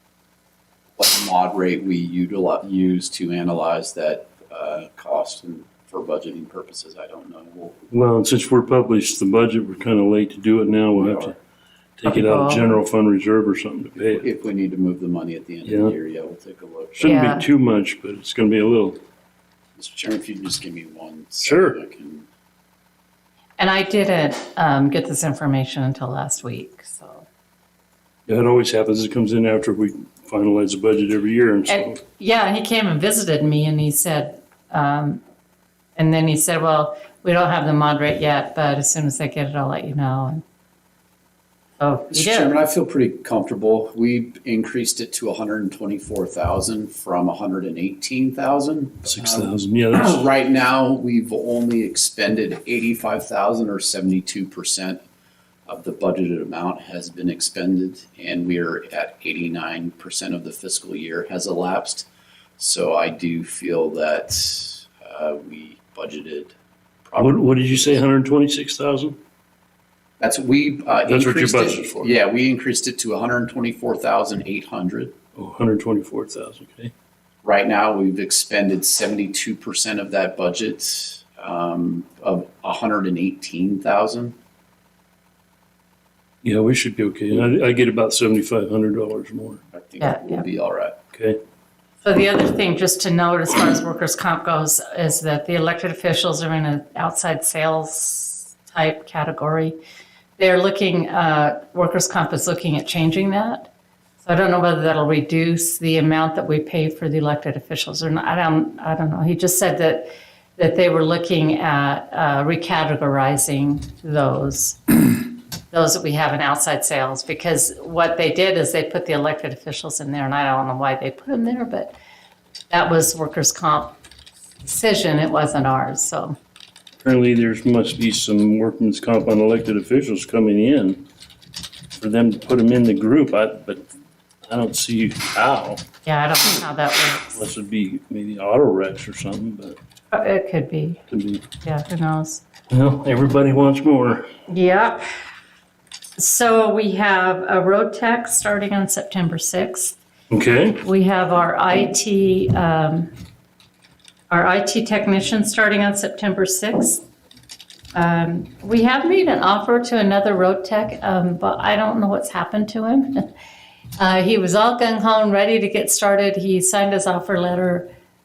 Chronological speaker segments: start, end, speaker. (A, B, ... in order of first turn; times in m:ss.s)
0:01.0-0:07.8 A
0:07.9-0:11.4 B
0:11.0-0:11.3 A
0:12.0-0:14.2 B
0:12.0-0:12.8 C
0:14.0-0:17.1 A
0:15.6-0:15.9 B
0:17.0-0:19.0 B
0:17.0-0:17.4 C
0:19.8-0:22.3 A
0:21.4-0:21.8 B
0:23.6-0:27.3 C
0:28.3-0:32.0 B
0:31.7-0:35.2 C
0:36.0-0:40.4 C
0:41.8-0:42.6 C
0:42.1-0:55.0 A
0:49.0-0:50.3 B
0:55.7-1:06.5 A
1:07.0-1:08.0 A
1:07.2-1:09.2 B
1:10.2-1:15.1 A
1:11.1-1:12.1 B
1:15.4-1:16.9 B
1:17.4-1:24.4 A
1:26.4-1:29.6 B
1:29.7-1:31.0 A
1:30.0-1:30.4 C
1:31.1-1:31.4 B
1:32.0-1:39.8 C
1:40.4-1:43.7 C
1:44.2-2:01.9 C
2:02.7-2:04.0 C
2:04.6-2:06.4 C
2:07.0-2:11.0 B
2:12.0-2:13.9 B
2:14.5-2:15.8 B
2:16.0-2:17.4 C
2:17.3-2:19.8 B
2:20.1-2:21.0 C
2:21.1-2:21.5 B
2:21.6-2:22.4 C
2:22.7-2:24.3 B
2:24.5-2:25.0 C
2:26.2-2:30.0 C
2:30.3-2:30.8 B
2:30.8-2:33.1 C
2:34.3-2:37.0 C
2:37.9-2:43.3 C
2:44.0-2:47.9 C